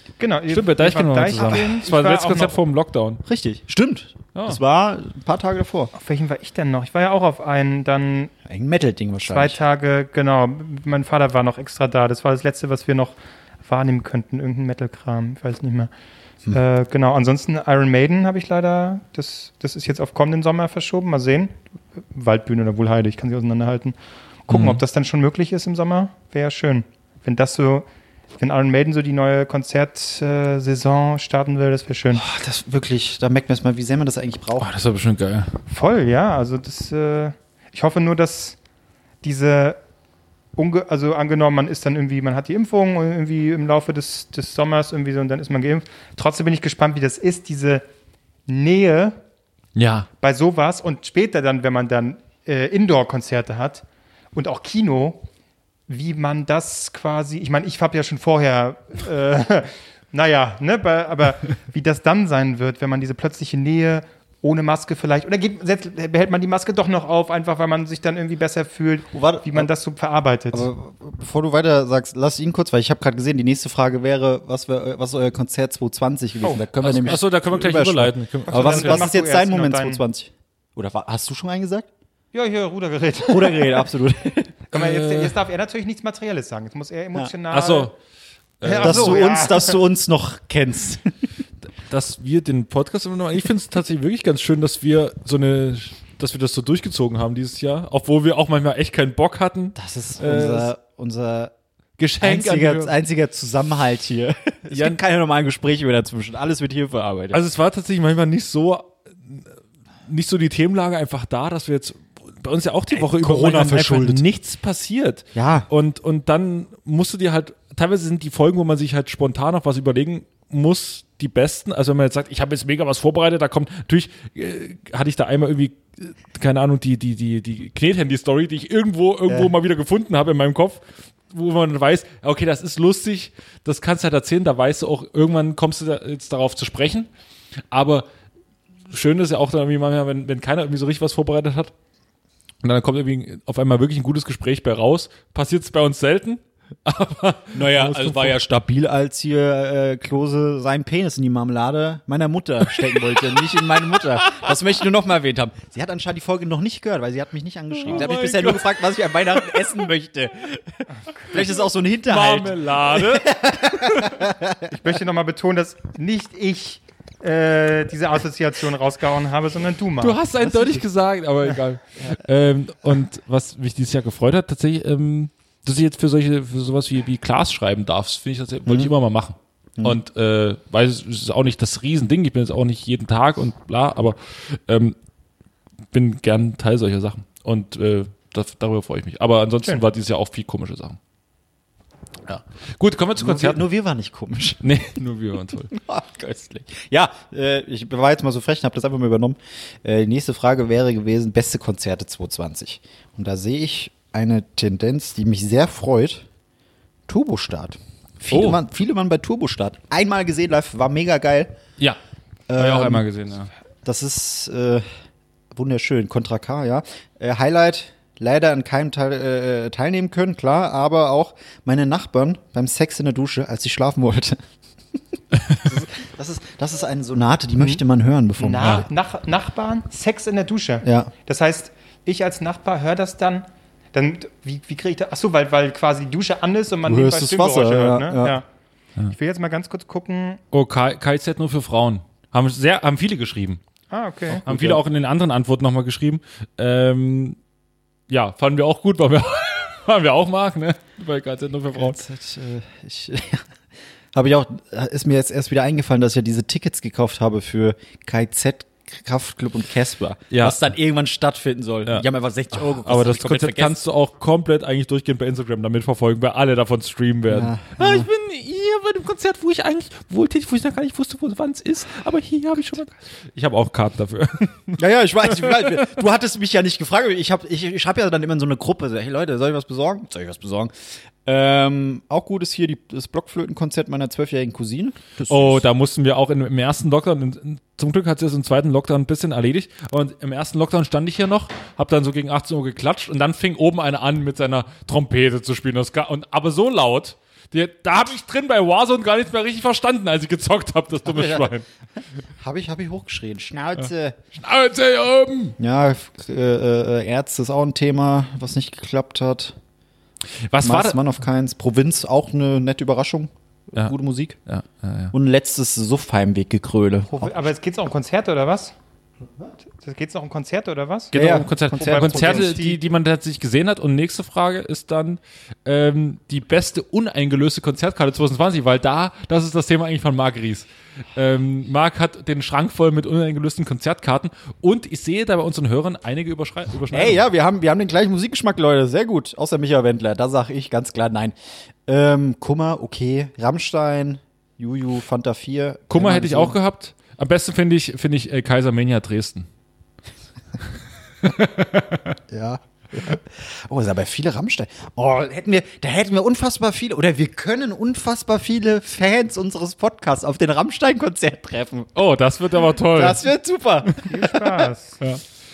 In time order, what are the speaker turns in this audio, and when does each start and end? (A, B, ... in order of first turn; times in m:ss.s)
0:00.2-0:02.6 A
0:00.5-0:03.2 B
0:03.2-0:05.9 C
0:04.4-0:04.6 B
0:05.9-0:08.3 A
0:08.5-0:09.6 C
0:09.3-0:15.9 A
0:16.5-0:32.2 A
0:24.5-0:24.8 B
0:32.1-0:34.7 C
0:34.6-0:35.5 B
0:35.7-0:38.6 A
0:39.2-0:39.8 A
0:40.6-0:47.8 A
0:48.5-0:49.2 A
0:49.8-0:50.1 B
0:50.2-0:55.2 A
0:55.9-1:10.7 A
1:09.1-1:09.7 C
1:10.5-1:21.9 C
1:16.4-1:16.7 A
1:16.8-1:19.1 B
1:18.5-1:20.0 A
1:22.3-1:23.9 A
1:23.3-1:24.6 C
1:24.7-1:27.9 A
1:24.7-1:25.4 B
1:27.5-1:28.0 B
1:28.6-1:29.2 B
1:28.6-1:29.8 A
1:28.8-1:31.1 C
1:31.9-1:40.7 B
1:39.8-1:41.5 C
1:42.0-1:43.0 B
1:42.2-1:47.4 C
1:44.7-1:45.0 B
1:47.3-1:49.5 B
1:50.1-2:17.1 B
1:52.9-1:54.2 C
1:55.4-1:55.7 C
2:17.7-2:18.1 B
2:18.9-2:21.7 B
2:22.6-2:28.4 B
2:27.5-2:44.8 C
2:32.8-2:34.5 B
2:37.8-2:39.8 B
2:41.4-2:44.2 B
2:44.7-2:50.2 A
2:50.0-3:05.0 B
2:58.7-2:58.9 C
3:05.9-3:11.0 B
3:12.3-3:13.6 B
3:13.2-3:14.8 C
3:14.6-3:15.7 B
3:15.7-3:26.2 C
3:27.1-3:31.5 C
3:28.3-3:28.6 B
3:32.5-3:33.0 C
3:32.6-3:33.5 B
3:33.8-3:34.8 C
3:35.5-3:44.4 C
3:45.5-3:48.9 C
3:48.4-3:58.4 A
3:50.8-3:51.1 C
3:56.8-3:58.4 C
3:59.1-4:00.4 A
4:00.5-4:03.6 B
4:03.9-4:04.4 A
4:04.3-4:04.8 C
4:04.4-4:07.4 B
4:08.1-4:12.0 B
4:11.8-4:13.5 C
4:14.1-4:23.8 C
4:20.3-4:20.6 B
4:21.9-4:35.9 B
4:27.3-4:28.1 C
4:34.8-4:40.7 C
4:41.2-4:45.6 C
4:45.3-5:01.6 B
5:01.0-5:01.5 C
5:02.4-5:04.2 C
5:04.3-5:05.6 B
5:05.6-5:09.6 C
5:10.5-5:11.0 B
5:10.6-5:14.4 C
5:14.5-5:15.1 B
5:15.1-5:17.5 C
5:17.1-5:18.8 A
5:19.7-5:21.1 A
5:21.1-5:37.2 B
5:21.1-5:22.6 C
5:21.7-5:22.8 A
5:36.9-5:41.4 C
5:41.9-5:46.6 C
5:45.9-5:49.5 B
5:51.2-5:52.2 B
5:52.3-6:01.9 C
6:02.0-6:03.3 B
6:02.9-6:04.4 C
6:04.1-6:05.0 A